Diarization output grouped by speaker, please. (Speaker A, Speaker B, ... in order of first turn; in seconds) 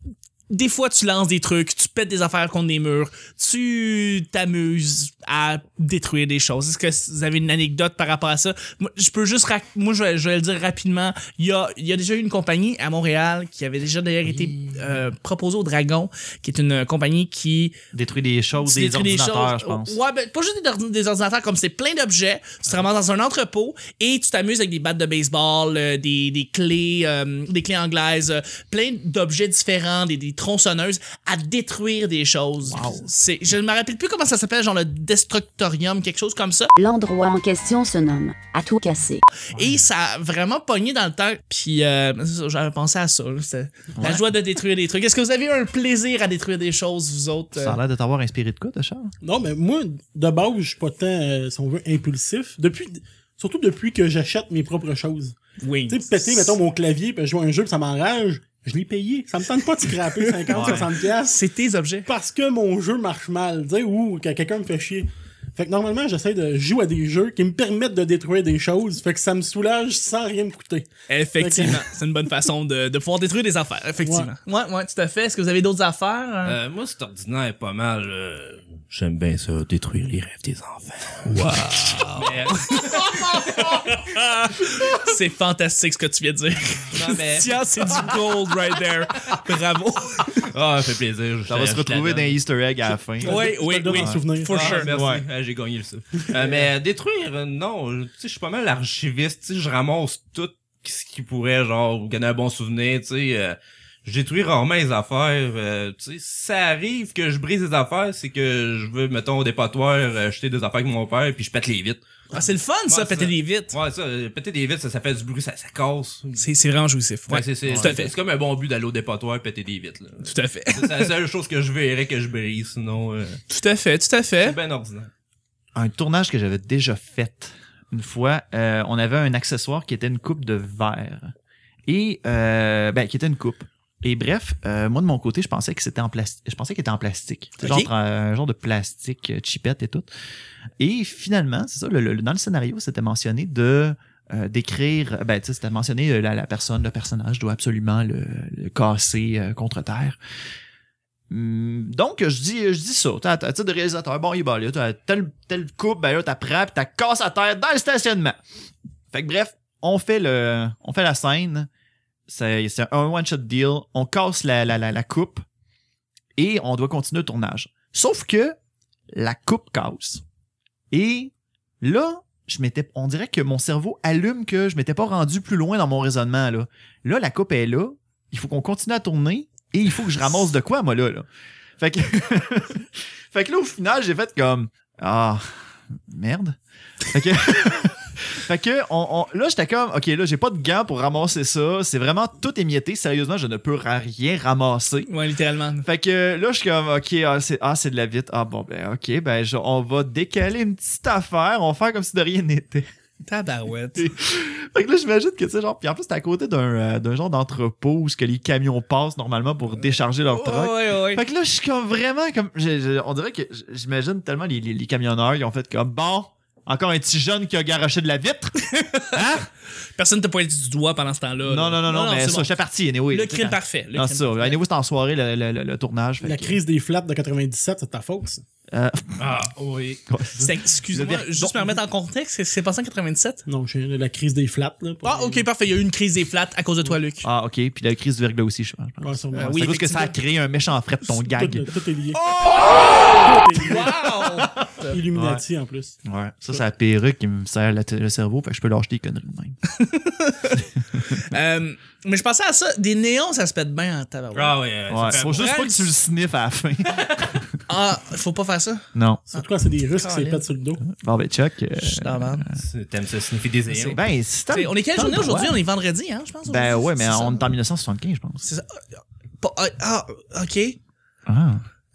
Speaker A: 0.5-17.8, 18.6-36.7, 39.5-47.8, 55.6-56.6, 60.2-62.1, 71.1-76.6, 81.2-90.4, 93.2-94.9, 112.3-113.7, 116.4-118.1, 120.2-121.1, 123.5-124.6, 137.6-137.9, 195.1-195.9, 203.2-204.1, 210.3-211.2, 218.7-219.4, 220.0-222.5, 223.1-224.6, 230.4-233.4, 235.0-237.3, 239.3-240.2, 242.3-245.0, 249.7-255.9, 257.7-260.4, 261.8-262.5, 263.7-264.0, 264.5-267.5, 268.4-270.8
Speaker B: 14.2-15.0, 17.9-20.0, 32.6-33.1, 39.5-39.9, 44.0-44.3, 47.6-49.1, 60.5-60.9, 91.5-94.2, 94.9-95.2, 117.7-117.9, 125.8-131.3, 131.9-140.1, 140.8-150.2, 151.3-158.4, 159.1-161.7, 162.3-165.4, 166.4-168.6, 169.1-170.2, 170.9-181.3, 181.8-195.1, 195.8-202.9, 204.0-219.5, 221.4-226.6, 228.7-229.5, 230.1-231.8, 237.2-241.7, 244.4-245.4, 246.1-249.6, 254.9-257.6, 258.9-259.2, 260.9-262.6, 263.9-265.6, 266.5-268.5, 271.3-271.6
Speaker C: 36.8-39.2
Speaker D: 49.2-55.4, 55.9-61.4, 62.1-71.8, 74.0-74.3, 93.2-94.8, 226.2-228.4, 233.5-235.5, 239.0-239.6, 241.2-242.2, 243.0-246.0, 259.3-260.8
Speaker E: 76.5-81.3, 82.1-83.9, 86.9-87.5, 90.4-92.4, 94.5-112.0, 112.9-116.4, 117.3-123.4, 124.4-125.1, 229.2-230.0, 254.3-255.6, 262.6-264.0